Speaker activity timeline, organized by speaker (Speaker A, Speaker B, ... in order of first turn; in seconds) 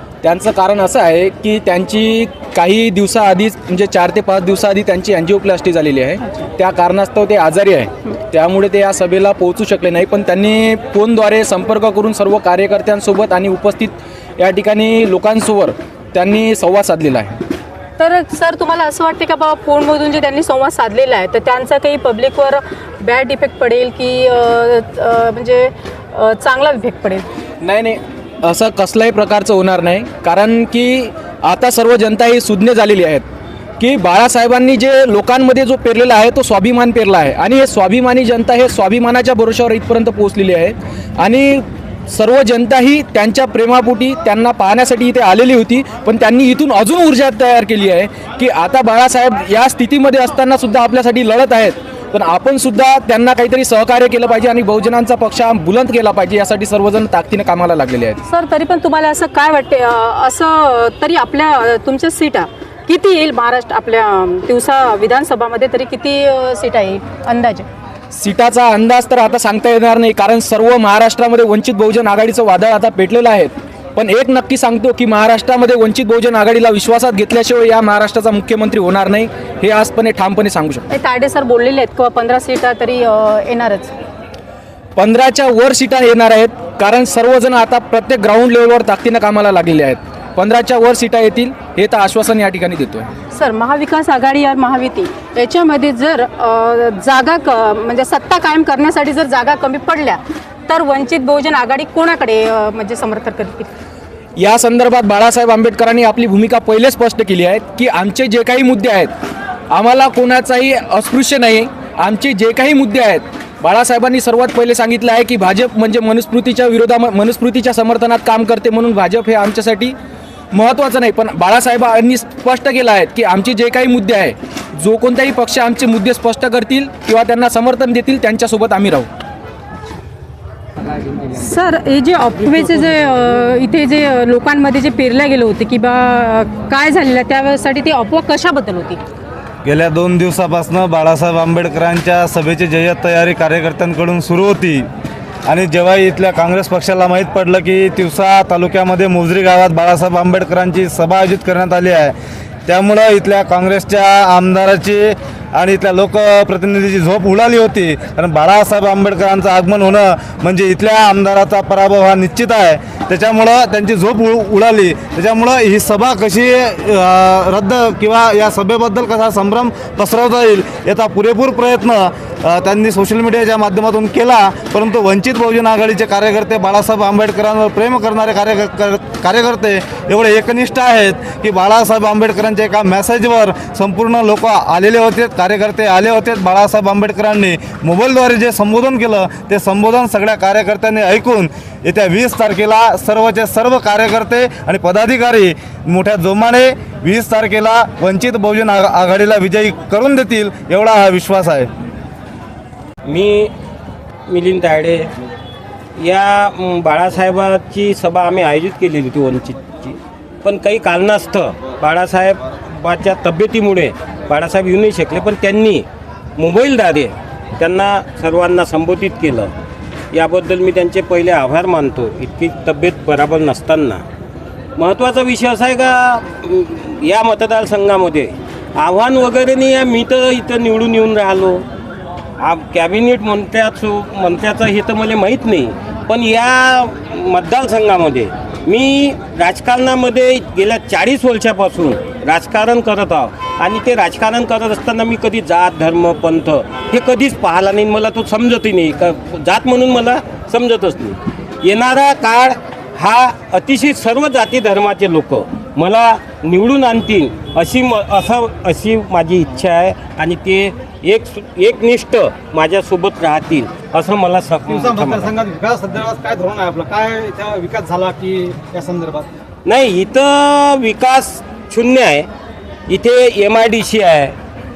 Speaker A: 0.2-17.4, 27.6-33.2, 33.8-58.2, 68.1-80.8, 85.0-93.1, 104.4-109.1, 109.7-119.9, 120.5-129.1
Speaker B: 18.0-27.2, 58.2-67.7, 80.9-83.9, 93.3-103.7, 131.3-139.0
Speaker C: 139.6-144.8, 145.5-152.1, 152.7-201.7
Speaker D: 203.1-203.5, 204.3-205.1, 206.0-215.8, 216.4-219.5, 220.1-224.0, 224.8-231.6, 232.4-265.4, 269.6-272.3, 272.9-274.3
Speaker E: 264.7-269.3